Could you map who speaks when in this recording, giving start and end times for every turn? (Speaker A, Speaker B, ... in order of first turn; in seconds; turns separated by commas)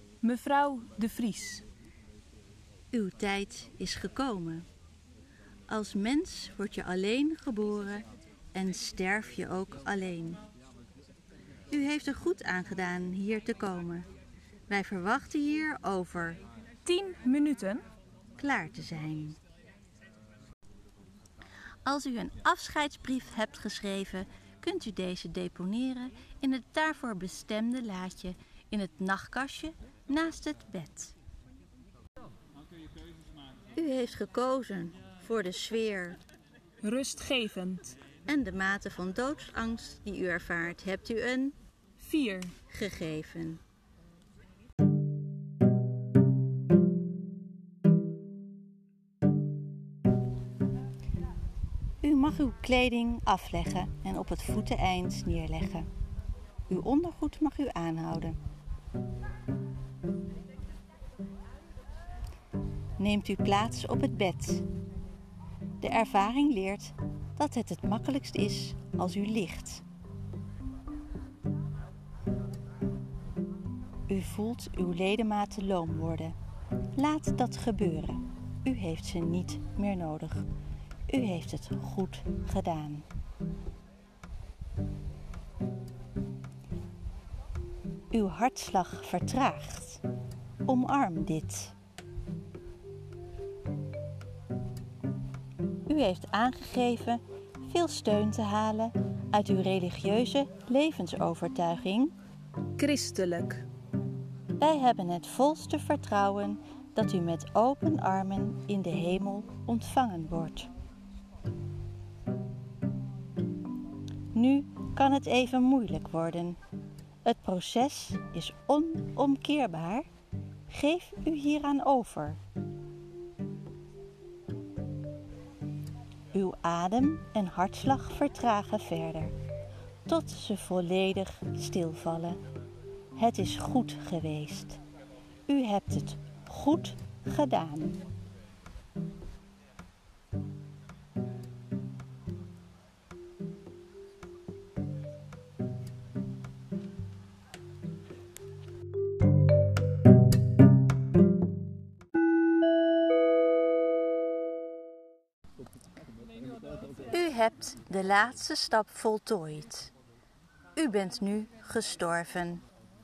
Speaker A: 0.2-1.6, Speaker B: 2.9-4.7, Speaker B: 5.7-10.4, Speaker B: 11.7-14.1, Speaker B: 14.7-16.4, Speaker A: 16.8-17.8, Speaker B: 18.4-19.4, Speaker B: 21.8-31.2, Speaker B: 33.7-36.2, Speaker A: 36.8-38.0, Speaker B: 38.2-41.5, Speaker A: 42.0-42.5, Speaker B: 42.7-43.6, Speaker B: 52.0-55.9, Speaker B: 56.7-58.4, Speaker B: 63.0-64.6, Speaker B: 65.8-69.8, Speaker B: 74.1-76.3, Speaker B: 77.0-80.5, Speaker B: 81.1-83.0, Speaker B: 88.1-90.0, Speaker B: 90.7-91.8, Speaker B: 95.9-102.1, Speaker A: 102.8-103.6, Speaker B: 104.6-110.7, Speaker B: 114.3-116.6, Speaker B: 117.2-120.1, Speaker B: 120.7-122.4, Speaker B: 126.3-129.3, Speaker B: 130.1-132.4, Speaker B: 133.2-134.8, Speaker B: 135.5-138.0, Speaker B: 157.1-159.9, Speaker B: 160.8-162.6